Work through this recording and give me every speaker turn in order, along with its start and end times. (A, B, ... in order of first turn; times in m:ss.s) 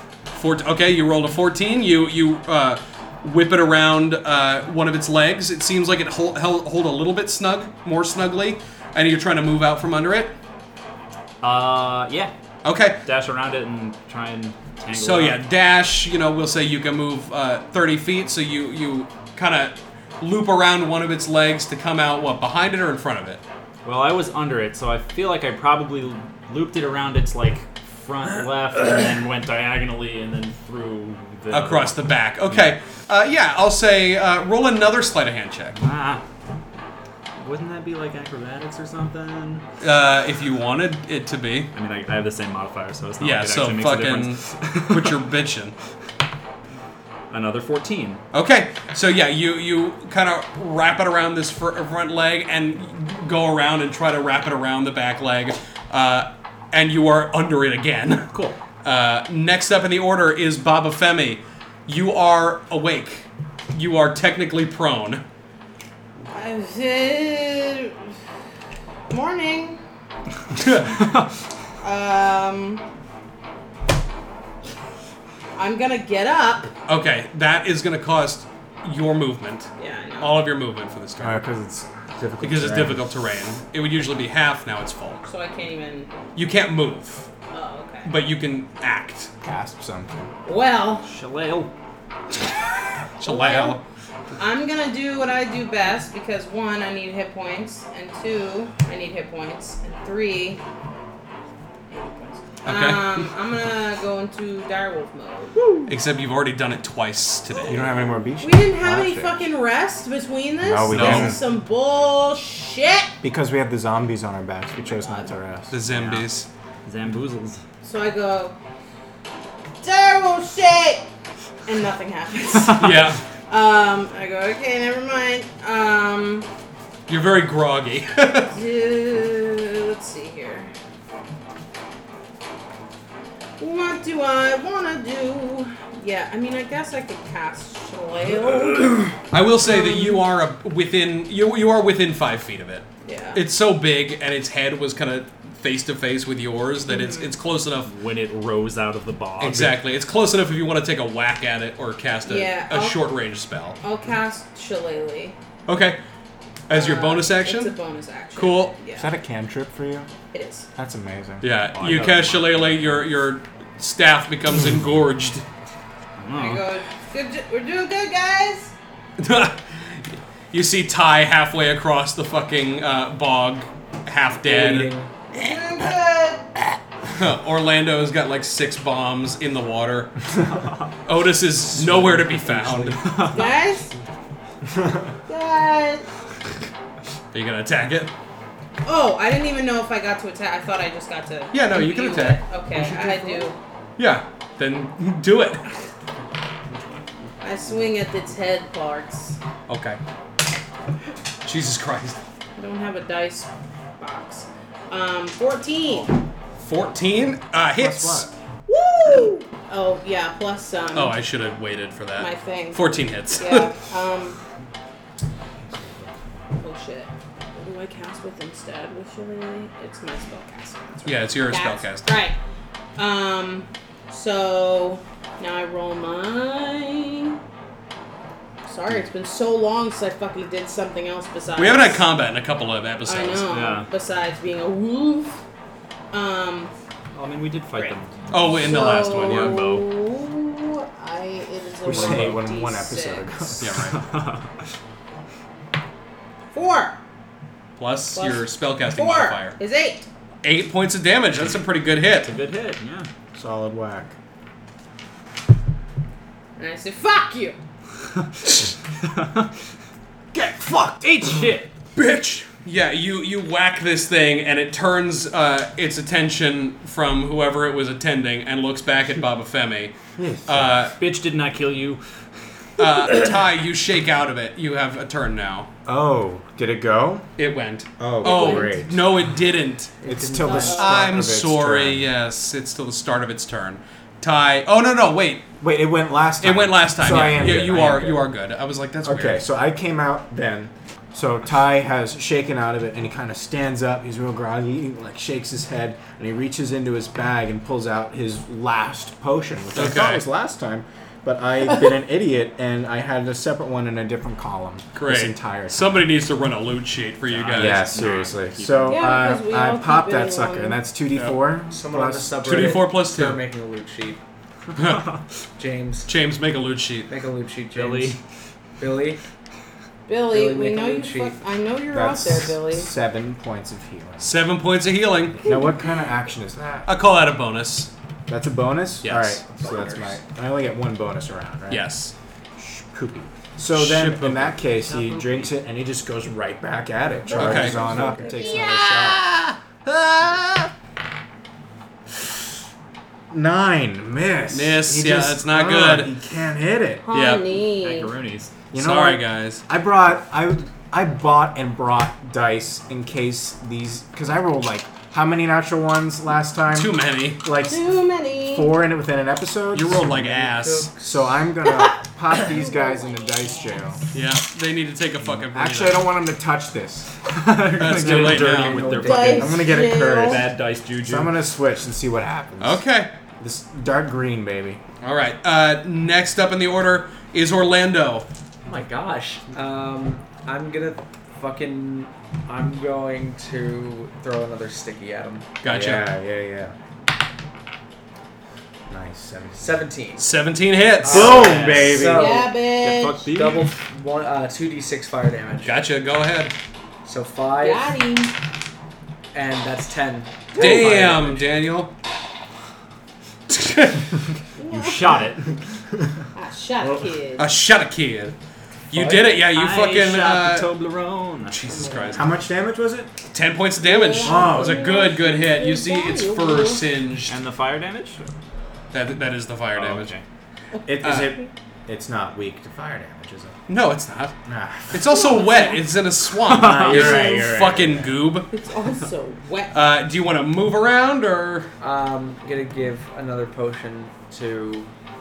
0:00.3-0:10.4 A
0:11.4-0:12.3 B
0:12.6-0:13.0 A
0:13.0-0:15.4 B
0:14.9-0:23.4 A
0:23.8-0:32.8 B
0:31.5-0:35.8 A
0:35.8-0:36.2 B
0:37.4-0:39.6 B
0:39.8-0:41.7 A
0:41.7-0:45.2 B
0:43.2-0:45.7 A
0:47.3-0:48.2 B
0:48.3-0:58.3 A
0:58.3-0:58.6 B
0:58.8-1:05.2 A
1:06.3-1:08.0 C
1:09.1-1:09.8 C
1:10.6-1:10.9 A
1:11.8-1:12.8 C
1:15.5-1:16.7 C
1:16.9-1:21.4 A
1:19.8-1:20.4 C
1:21.2-1:23.0 D
1:22.4-1:25.2 A
1:25.2-1:26.1 C
1:26.4-1:27.3 A
1:27.5-1:28.1 C
1:28.0-1:29.3 A
1:29.4-1:30.3 D
1:30.4-1:31.0 C
1:31.0-1:31.7 B
1:33.2-1:33.8 A
1:33.2-1:33.8 C
1:34.4-1:40.6 C
1:41.9-1:45.8 C
1:42.6-1:43.3 A
1:45.9-1:47.9 A
1:47.5-1:53.1 C
1:47.6-1:49.4 D
1:50.6-1:51.4 D
1:50.9-1:51.4 A
1:53.2-1:55.8 D
1:54.8-1:55.3 C
1:55.7-1:56.5 A
1:55.9-1:56.2 B
1:56.8-1:57.6 B
1:57.8-1:58.6 C
1:59.8-2:01.0 C
2:01.6-2:06.5 C
2:02.7-2:03.2 A
2:07.1-2:08.5 A
2:08.5-2:10.7 C
2:13.6-2:20.2 C
2:19.3-2:27.9 A
2:23.0-2:23.4 C
2:26.9-2:27.4 C
2:27.8-2:29.8 B
2:29.4-2:33.8 A
2:32.2-2:33.1 C
2:33.8-2:35.4 C
2:35.7-2:36.0 A
2:36.7-2:37.8 A
2:36.7-2:39.1 C
2:38.3-2:38.7 A
2:38.9-2:40.1 D
2:40.3-2:40.7 C
2:40.8-2:41.4 D
2:41.4-2:45.4 A
2:41.7-2:43.1 B
2:46.2-2:46.6 B
2:46.3-2:48.7 C
2:49.2-2:54.9 A
2:54.4-2:55.1 E
2:55.3-2:56.5 C
2:57.1-3:00.2 A
3:00.5-3:00.9 B
3:01.0-3:03.2 A
3:02.0-3:03.2 E
3:03.0-3:03.6 B
3:03.3-3:03.9 C
3:04.7-3:05.1 D
3:05.3-3:06.0 C
3:07.3-3:08.1 A
3:08.8-3:13.6 C
3:11.5-3:12.4 A
3:12.9-3:13.5 E
3:14.0-3:15.6 A
3:17.4-3:19.4 C
3:19.7-3:20.0 A
3:21.4-3:22.2 A
3:22.6-3:23.5 C
3:24.0-3:26.1 C
3:26.6-3:28.3 A
3:27.8-3:28.3 D
3:28.7-3:31.2 C
3:30.9-3:33.7 A
3:32.2-3:34.4 C
3:35.6-3:36.1 D
3:36.6-3:42.4 C
3:41.0-3:42.1 A
3:43.0-3:47.4 C
3:48.6-3:52.1 C
3:51.6-3:53.5 A
3:53.0-3:55.4 C
3:53.5-3:53.9 B
3:56.1-3:56.7 C
3:57.1-3:59.8 B
3:58.3-3:59.8 A
3:58.6-4:03.3 C
4:01.8-4:03.9 D
4:01.9-4:02.3 B
4:03.6-4:04.0 A
4:03.9-4:04.5 B
4:06.5-4:07.0 C
4:07.8-4:09.6 A
4:08.1-4:10.1 C
4:10.4-4:12.3 A
4:12.2-4:13.1 B
4:13.3-4:14.1 D
4:16.6-4:17.6 C
4:19.0-4:19.5 B
4:20.3-4:21.3 D
4:20.8-4:21.7 B
4:22.0-4:29.9 A
4:30.2-4:30.9 D
4:30.4-4:31.0 A
4:31.0-4:32.0 B
4:32.8-4:35.7 A
4:35.8-4:37.3 D
4:37.4-4:39.9 A
4:38.0-4:39.0 D
4:38.2-4:38.8 C
4:40.0-4:41.0 E
4:40.0-4:42.1 D
4:40.4-4:41.0 C
4:40.7-4:45.4 A
4:45.6-4:48.3 D
4:46.4-4:49.4 A
4:49.0-5:06.1 D
4:59.7-5:00.2 A
5:04.9-5:07.9 A
5:07.2-5:09.2 B
5:07.5-5:12.7 D
5:08.9-5:10.8 C
5:11.7-5:14.2 E
5:12.4-5:13.4 A
5:14.7-5:15.1 A
5:15.6-5:16.1 E
5:16.0-5:17.1 A
5:17.1-5:18.2 E
5:17.7-5:18.2 B
5:18.8-5:19.2 E
5:20.1-5:22.9 C
5:20.3-5:21.4 E
5:21.9-5:24.3 D
5:24.2-5:25.4 A
5:25.4-5:26.9 D
5:25.4-5:25.9 C
5:26.8-5:27.9 A
5:28.3-5:31.9 D
5:29.0-5:29.8 A
5:29.6-5:30.1 E
5:31.7-5:32.1 A
5:32.6-5:39.2 D
5:33.7-5:34.6 A
5:34.7-5:35.5 B
5:37.2-5:38.5 E
5:37.2-5:39.2 C
5:37.3-5:37.8 A
5:39.1-5:40.7 A
5:43.3-5:47.0 D
5:44.5-5:46.1 A
5:47.0-5:48.1 C
5:47.1-5:47.4 A
5:47.7-5:48.5 B
5:48.7-5:57.9 D
5:48.7-5:49.6 A
5:56.7-5:57.4 A
5:57.6-5:58.8 C
5:58.5-6:00.3 D
5:59.7-6:00.9 A
6:00.2-6:01.2 E
6:01.0-6:04.0 D
6:01.6-6:04.0 C
6:04.1-6:06.1 A
6:05.2-6:07.1 D
6:07.2-6:11.4 B
6:07.8-6:09.0 A
6:08.0-6:09.7 E
6:09.0-6:10.4 C
6:09.4-6:12.8 D
6:12.6-6:13.1 A
6:13.4-6:14.8 D
6:15.0-6:18.2 A
6:18.6-6:25.5 E
6:25.6-6:26.1 A
6:25.6-6:26.7 D
6:28.9-6:29.8 D
6:29.6-6:30.3 E
6:30.2-6:31.7 A
6:31.0-6:32.5 E
6:31.0-6:32.4 D
6:31.3-6:32.1 B
6:32.1-6:33.3 C
6:32.8-6:33.7 B
6:33.3-6:35.8 E
6:35.6-6:36.5 A
6:37.0-6:37.9 E
6:37.6-6:38.3 C
6:39.3-6:41.4 E
6:40.5-6:41.9 A
6:40.6-6:40.8 C
6:40.8-6:41.1 B
6:43.5-6:44.1 A
6:44.6-6:45.2 C
6:44.7-6:45.5 B
6:46.3-6:47.5 C
6:47.4-6:48.3 A
6:48.9-6:50.7 A
6:48.9-6:49.3 E
6:49.4-6:51.6 B
6:51.5-6:52.3 A
6:51.7-6:52.2 C
6:52.1-6:53.1 D
6:53.3-6:57.4 A
6:53.8-6:56.8 C
6:54.2-6:54.8 D
6:57.2-6:58.3 B
6:58.9-7:00.1 A
6:59.8-7:00.2 B
7:00.7-7:01.5 C
7:00.8-7:03.6 D
7:01.0-7:01.3 A
7:03.7-7:04.3 A
7:04.4-7:05.0 D
7:04.9-7:08.5 A
7:05.0-7:05.8 C
7:06.4-7:07.4 B
7:06.5-7:08.2 D
7:06.9-7:07.5 C
7:08.5-7:09.8 C
7:09.7-7:11.7 A
7:11.8-7:14.9 E